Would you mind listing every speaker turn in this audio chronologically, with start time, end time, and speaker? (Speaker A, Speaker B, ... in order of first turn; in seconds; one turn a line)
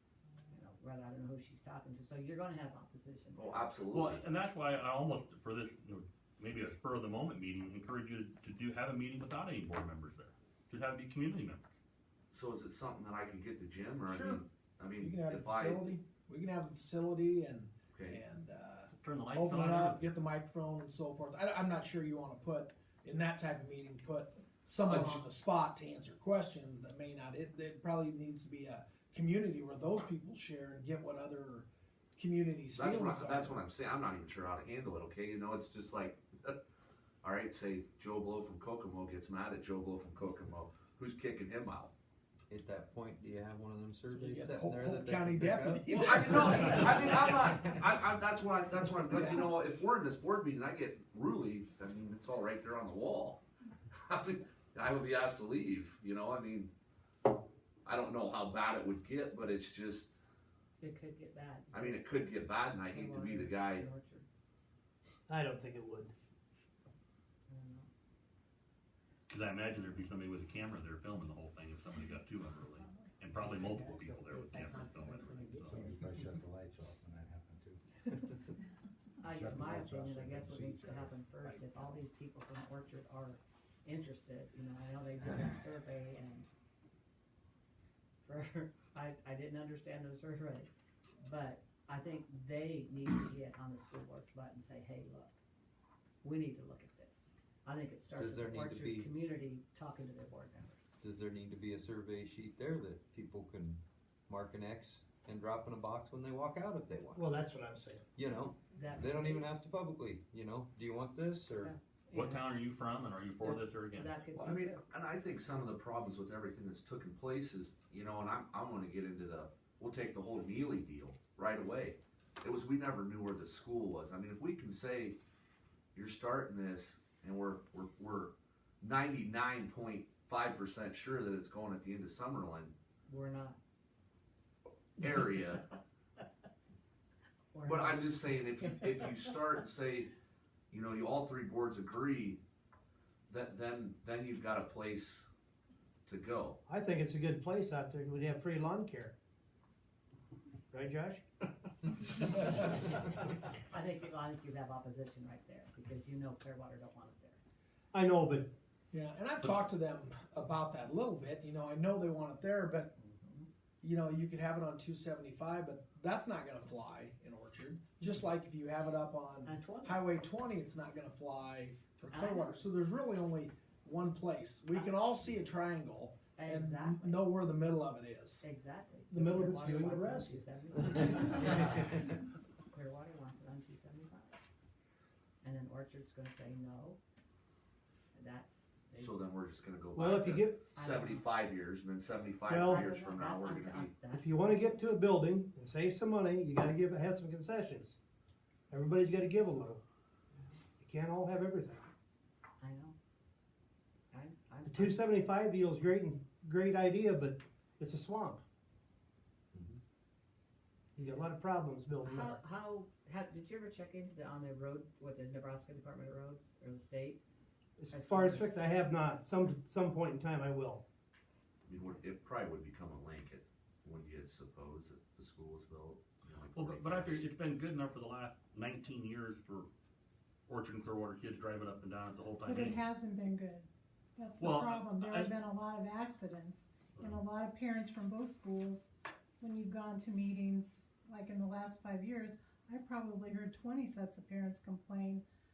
Speaker A: 0.5-3.7
Speaker B: 3.3-4.2
Speaker C: 3.9-11.8
Speaker B: 12.3-15.9
Speaker D: 14.0-14.4
Speaker D: 15.0-33.6
Speaker B: 17.9-18.2
Speaker C: 18.9-20.1
Speaker B: 32.7-36.6
Speaker B: 37.2-41.9
Speaker E: 42.5-45.9
Speaker D: 44.1-47.3
Speaker B: 45.9-53.4
Speaker D: 49.1-49.4
Speaker B: 54.0-56.7
Speaker B: 57.9-60.1
Speaker A: 60.8-62.2
Speaker B: 61.7-63.9
Speaker A: 62.8-64.2
Speaker F: 65.3-66.1
Speaker A: 67.5-67.9
Speaker C: 69.3-75.8
Speaker A: 73.5-76.0
Speaker G: 75.7-78.0
Speaker A: 79.2-86.5
Speaker G: 79.2-82.0
Speaker A: 88.2-90.7
Speaker A: 91.2-95.4
Speaker A: 96.2-100.9
Speaker E: 98.2-99.1
Speaker E: 101.0-107.2
Speaker F: 107.1-108.1
Speaker E: 108.2-111.7
Speaker A: 108.7-109.5
Speaker A: 111.6-112.6
Speaker C: 112.1-114.2
Speaker A: 113.4-114.8
Speaker B: 114.3-125.2
Speaker B: 125.9-132.7
Speaker A: 133.1-133.6
Speaker B: 135.0-135.7
Speaker A: 137.5-139.3
Speaker B: 137.6-140.1
Speaker B: 140.7-142.4
Speaker B: 143.3-145.3
Speaker B: 146.1-146.6
Speaker F: 146.7-149.1
Speaker F: 150.7-151.2
Speaker A: 153.6-157.4
Speaker F: 157.9-158.5
Speaker D: 158.9-162.9
Speaker A: 163.0-163.5
Speaker D: 163.8-178.4
Speaker A: 169.4-170.0
Speaker A: 172.1-172.7
Speaker A: 176.3-177.3
Speaker A: 178.4-181.9
Speaker F: 179.1-181.3
Speaker A: 182.7-184.4
Speaker A: 185.4-187.0
Speaker A: 188.1-189.2
Speaker B: 188.9-194.0
Speaker F: 189.9-190.6
Speaker A: 190.7-191.2
Speaker F: 192.5-192.9
Speaker A: 192.6-194.8
Speaker F: 194.1-198.0
Speaker F: 198.7-199.8
Speaker F: 200.8-201.9
Speaker A: 202.6-202.9
Speaker A: 204.1-205.0
Speaker F: 204.6-208.4
Speaker B: 209.5-209.8
Speaker F: 210.9-212.4
Speaker A: 212.0-217.2
Speaker F: 217.8-220.8
Speaker A: 217.9-218.5
Speaker B: 221.7-227.2
Speaker C: 226.5-229.7
Speaker C: 230.5-232.8
Speaker H: 232.5-233.7
Speaker H: 234.2-238.9
Speaker C: 234.4-235.4
Speaker C: 236.9-237.2
Speaker H: 239.4-245.2